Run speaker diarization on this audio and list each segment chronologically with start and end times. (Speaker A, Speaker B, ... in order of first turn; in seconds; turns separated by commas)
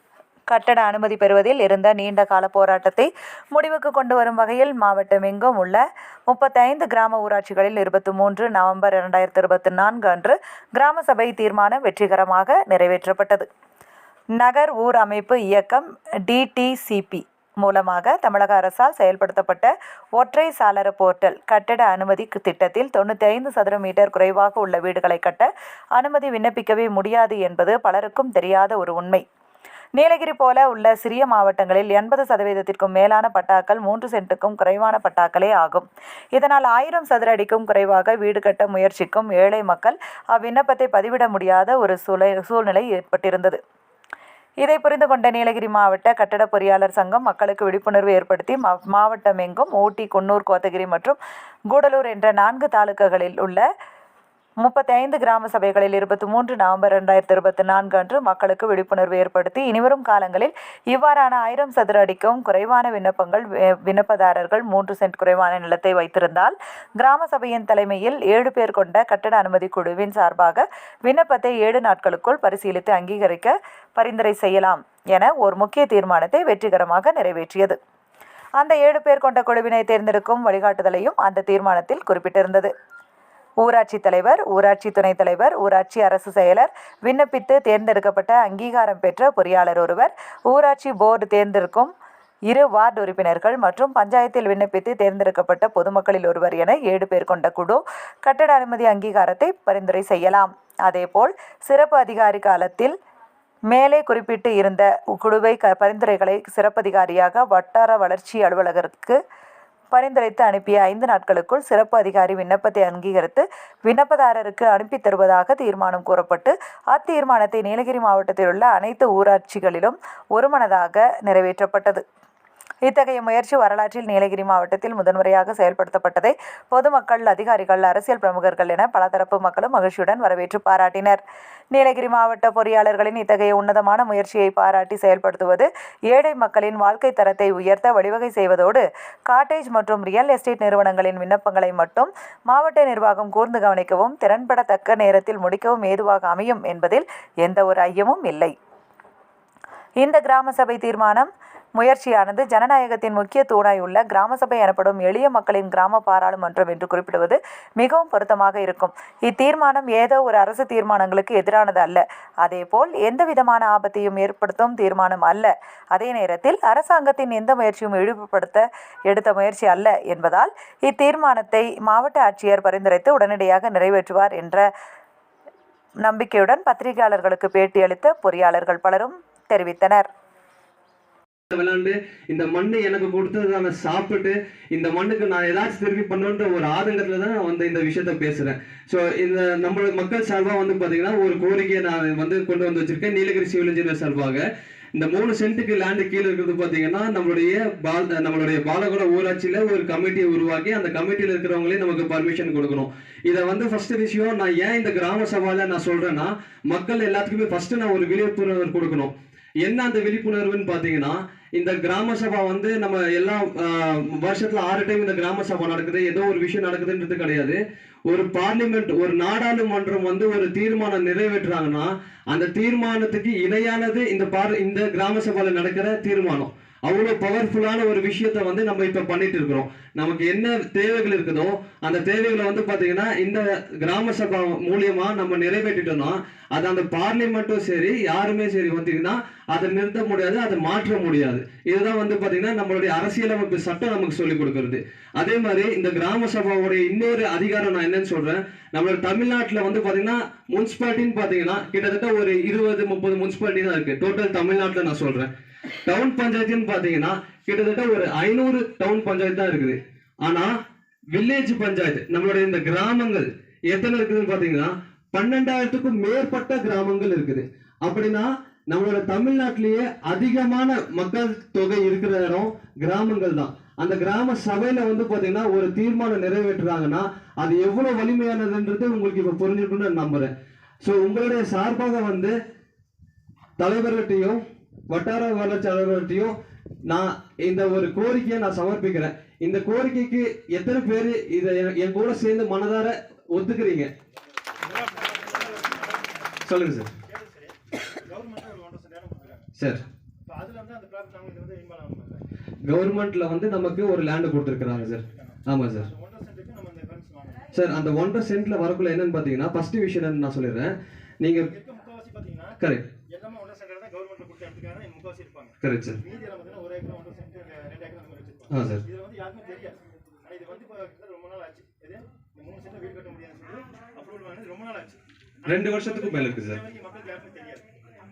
Speaker A: 0.5-13.4, Speaker A: 14.4-29.2, Speaker A: 29.9-43.6, Speaker A: 44.6-51.2, Speaker A: 51.7-53.6, Speaker A: 54.6-77.8, Speaker A: 78.6-82.7, Speaker A: 83.6-91.9, Speaker A: 92.5-102.9, Speaker A: 103.7-109.2, Speaker A: 109.9-122.0, Speaker A: 122.8-131.2, Speaker A: 131.7-148.5, Speaker A: 150.0-174.6, Speaker A: 176.0-180.1, Speaker B: 181.5-194.4, Speaker B: 194.9-209.1, Speaker B: 209.6-217.6, Speaker B: 218.1-255.3, Speaker B: 255.8-260.5, Speaker B: 261.1-280.3, Speaker B: 280.8-282.3, Speaker B: 283.6-286.3, Speaker B: 286.9-293.9, Speaker C: 294.6-296.3, Speaker B: 296.4-296.9, Speaker C: 297.0-299.5, Speaker B: 299.6-299.8, Speaker C: 300.2-302.2, Speaker B: 302.7-305.9, Speaker C: 304.7-307.5, Speaker B: 307.5-311.5, Speaker C: 311.4-312.6, Speaker B: 312.6-312.8, Speaker C: 313.1-327.6, Speaker B: 315.6-316.0, Speaker B: 318.5-318.8, Speaker B: 325.4-326.6